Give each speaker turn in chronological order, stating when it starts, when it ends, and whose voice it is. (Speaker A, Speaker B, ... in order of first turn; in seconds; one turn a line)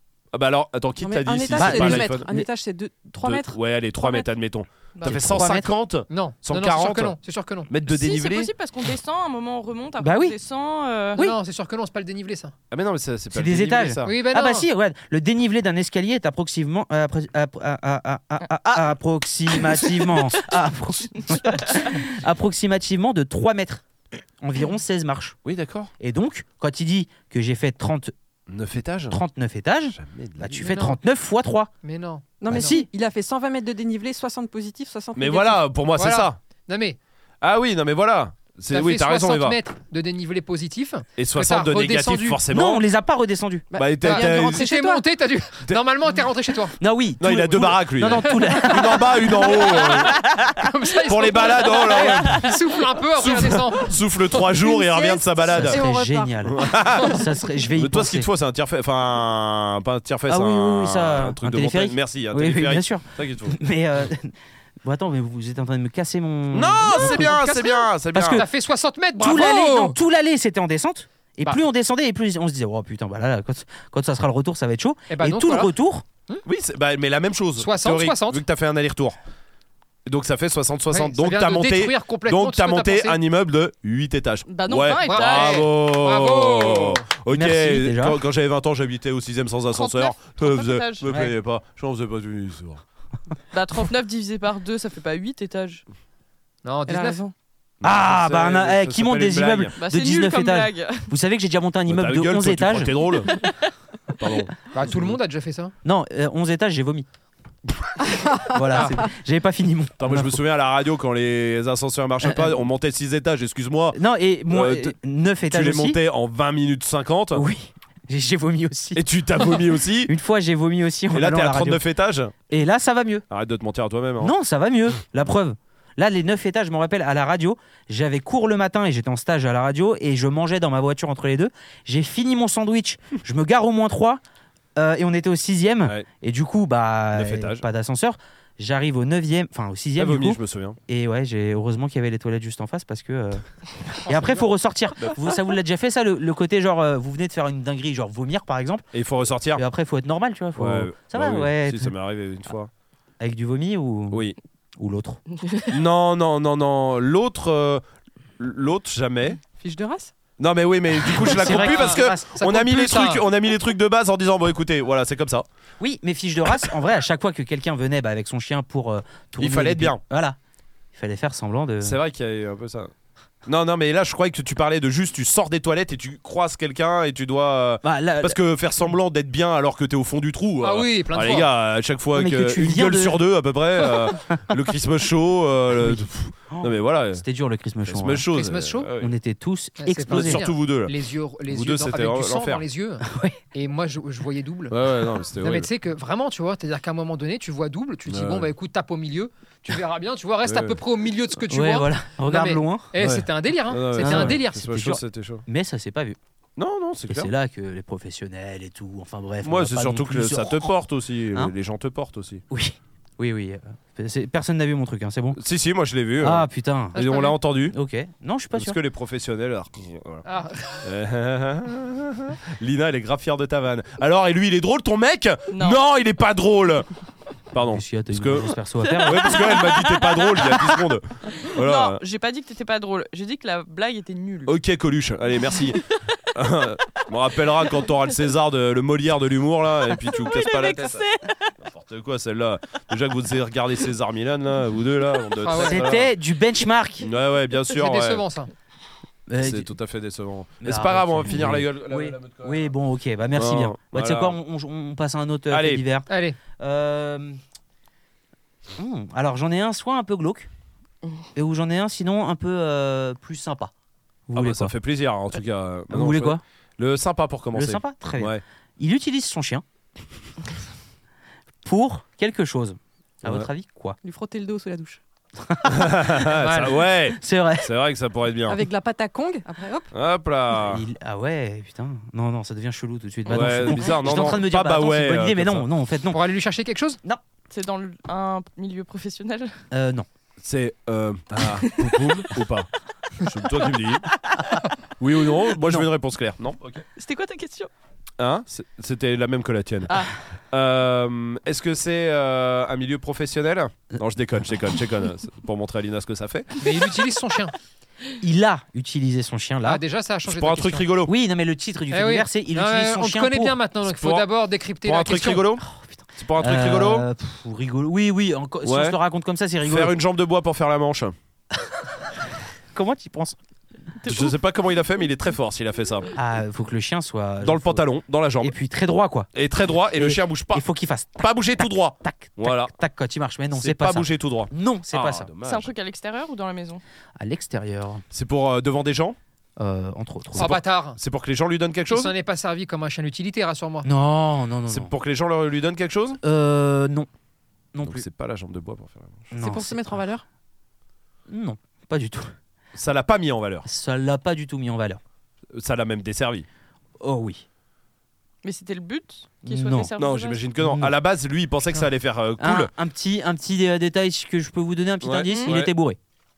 Speaker A: 0.3-2.2
Speaker B: 1.0-4.3
Speaker C: 1.5-2.5
Speaker A: 3.2-7.2
Speaker D: 4.9-5.2
Speaker C: 5.0-5.7
Speaker E: 6.1-7.7
Speaker A: 7.7-8.5
Speaker D: 7.8-11.2
Speaker C: 10.0-10.3
Speaker E: 11.2-12.5
Speaker A: 12.7-14.1
Speaker C: 13.3-23.8
Speaker E: 14.0-14.7
Speaker C: 24.4-25.4
Speaker A: 25.4-25.9
Speaker C: 26.0-28.1
Speaker A: 28.5-29.2
Speaker C: 29.1-31.7
Speaker A: 29.9-30.8
Speaker E: 30.6-30.9
Speaker E: 31.8-32.7
Speaker B: 32.4-35.6
Speaker C: 32.5-32.9
Speaker A: 35.1-36.4
Speaker E: 36.0-37.0
Speaker A: 37.4-39.6
Speaker E: 38.7-42.4
Speaker A: 41.2-42.8
Speaker C: 42.5-43.7
Speaker B: 43.7-45.0
Speaker A: 43.7-44.6
Speaker E: 44.0-46.8
Speaker C: 46.8-49.5
Speaker A: 47.2-50.2
Speaker E: 50.6-54.0
Speaker A: 51.0-52.5
Speaker A: 53.1-55.8
Speaker B: 54.5-56.5
Speaker C: 55.4-58.3
Speaker A: 56.4-57.2
Speaker A: 57.7-63.6
Speaker C: 60.3-67.4
Speaker A: 66.5-68.4
Speaker E: 66.9-70.0
Speaker C: 68.1-68.5
Speaker C: 69.2-76.0
Speaker E: 75.1-75.7
Speaker A: 76.4-79.2
Speaker E: 77.6-78.4
Speaker A: 80.0-92.8
Speaker E: 80.9-83.2
Speaker D: 84.5-85.7
Speaker E: 85.0-87.0
Speaker C: 87.3-88.2
Speaker D: 89.7-91.1
Speaker C: 91.1-91.3
Speaker D: 93.5-95.8
Speaker E: 96.6-97.2
Speaker B: 96.9-97.3
Speaker A: 97.8-99.7
Speaker C: 97.8-103.0
Speaker D: 99.8-101.1
Speaker A: 101.9-103.4
Speaker A: 104.2-104.5
Speaker E: 104.7-105.7
Speaker C: 105.8-107.1
Speaker C: 108.4-110.4
Speaker A: 110.0-114.0
Speaker C: 112.2-112.6
Speaker C: 113.9-116.0
Speaker A: 114.5-114.9
Speaker A: 115.5-117.4
Speaker C: 117.3-119.0
Speaker A: 118.9-120.1
Speaker C: 120.0-121.8
Speaker A: 121.1-122.3
Speaker C: 122.5-123.2
Speaker A: 123.3-124.3
Speaker C: 124.2-134.2
Speaker C: 134.8-148.9
Speaker A: 137.1-137.6
Speaker A: 140.0-140.8
Speaker E: 144.1-144.4
Speaker A: 148.9-149.6
Speaker C: 149.5-151.9
Speaker A: 150.6-152.7
Speaker C: 153.2-154.2
Speaker A: 154.1-154.4
Speaker C: 154.8-155.2
Speaker A: 155.7-157.8
Speaker A: 158.4-159.4
Speaker B: 159.5-160.1
Speaker A: 160.4-165.5
Speaker C: 161.1-162.3
Speaker E: 161.4-163.2
Speaker C: 165.8-170.4
Speaker A: 169.4-170.0
Speaker C: 170.9-172.0
Speaker A: 171.8-172.9
Speaker A: 173.4-187.2
Speaker C: 177.8-178.4
Speaker E: 180.6-181.5
Speaker C: 182.1-183.2
Speaker C: 183.8-184.1
Speaker C: 185.8-188.3
Speaker A: 187.9-189.1
Speaker E: 188.3-188.9
Speaker C: 188.9-190.5
Speaker E: 189.8-194.7
Speaker A: 190.1-190.9
Speaker A: 191.5-192.6
Speaker C: 193.1-193.4
Speaker A: 194.7-195.7
Speaker E: 195.4-204.7
Speaker A: 198.1-198.5
Speaker A: 200.4-200.8
Speaker C: 201.5-202.9
Speaker A: 203.0-205.4
Speaker C: 204.0-206.2
Speaker A: 206.6-207.3
Speaker C: 207.1-210.7
Speaker A: 209.4-212.4
Speaker C: 212.5-215.4
Speaker A: 215.3-217.8
Speaker C: 216.2-217.1
Speaker E: 216.9-217.4
Speaker C: 217.7-218.8
Speaker A: 218.5-220.2
Speaker E: 220.2-220.9
Speaker A: 220.8-226.9
Speaker D: 225.5-225.8
Speaker A: 227.5-232.0
Speaker C: 227.6-229.6
Speaker D: 228.8-230.8
Speaker D: 231.5-234.6
Speaker A: 234.5-235.8
Speaker A: 236.3-241.0
Speaker D: 239.9-241.5
Speaker A: 241.6-246.1
Speaker E: 245.4-245.9
Speaker C: 245.5-247.1
Speaker A: 247.0-248.2
Speaker E: 247.7-248.5
Speaker C: 249.3-249.7
Speaker A: 249.4-252.7
Speaker C: 250.6-256.1
Speaker A: 253.3-254.3
Speaker A: 255.5-255.8
Speaker E: 256.1-256.4
Speaker C: 256.6-257.4
Speaker C: 258.8-260.5
Speaker C: 261.3-263.7
Speaker C: 264.3-264.7
Speaker A: 264.3-268.4
Speaker C: 265.9-266.4
Speaker C: 267.5-269.6
Speaker C: 271.6-274.0
Speaker A: 273.2-273.5
Speaker B: 274.0-275.0
Speaker C: 275.4-276.1
Speaker A: 275.6-278.6
Speaker E: 276.4-276.8
Speaker C: 277.1-277.7
Speaker B: 278.5-279.9
Speaker A: 279.9-280.8
Speaker C: 280.5-286.2
Speaker D: 283.3-283.9
Speaker A: 283.3-285.6
Speaker E: 286.1-287.0
Speaker D: 287.5-289.6
Speaker C: 289.7-290.1
Speaker A: 290.4-292.7
Speaker D: 291.7-292.1
Speaker A: 293.2-294.1
Speaker A: 295.0-296.8
Speaker C: 295.6-295.9
Speaker D: 296.9-297.7
Speaker A: 298.2-306.5
Speaker E: 306.6-307.5
Speaker C: 308.2-309.8
Speaker E: 309.6-310.9
Speaker A: 310.3-311.1
Speaker C: 311.0-313.6
Speaker E: 311.9-315.4
Speaker A: 313.8-314.2
Speaker A: 314.8-315.6
Speaker C: 315.6-319.9
Speaker A: 316.2-317.1
Speaker A: 318.6-318.9
Speaker A: 319.6-321.1
Speaker C: 322.7-323.4
Speaker D: 324.0-324.3
Speaker A: 324.1-326.1
Speaker C: 326.1-327.8
Speaker A: 327.4-328.5
Speaker C: 328.4-329.3
Speaker A: 329.3-330.6
Speaker C: 329.9-335.3
Speaker A: 331.2-332.7
Speaker A: 333.5-335.7
Speaker D: 335.4-336.8
Speaker C: 337.1-338.0
Speaker A: 338.1-339.2
Speaker C: 339.6-340.6
Speaker E: 340.3-341.0
Speaker A: 340.3-342.1
Speaker E: 341.9-343.9
Speaker C: 343.8-344.9
Speaker A: 344.7-346.2
Speaker C: 346.2-347.1
Speaker C: 347.7-348.0
Speaker A: 347.8-349.3
Speaker C: 349.3-350.0
Speaker B: 349.4-350.2
Speaker C: 351.3-352.3
Speaker A: 352.7-353.6
Speaker C: 353.6-355.0
Speaker A: 355.5-356.4
Speaker C: 357.0-357.4
Speaker D: 358.4-360.4
Speaker C: 359.4-359.9
Speaker A: 360.0-362.7
Speaker C: 360.6-360.9
Speaker C: 362.4-366.0
Speaker A: 365.0-365.7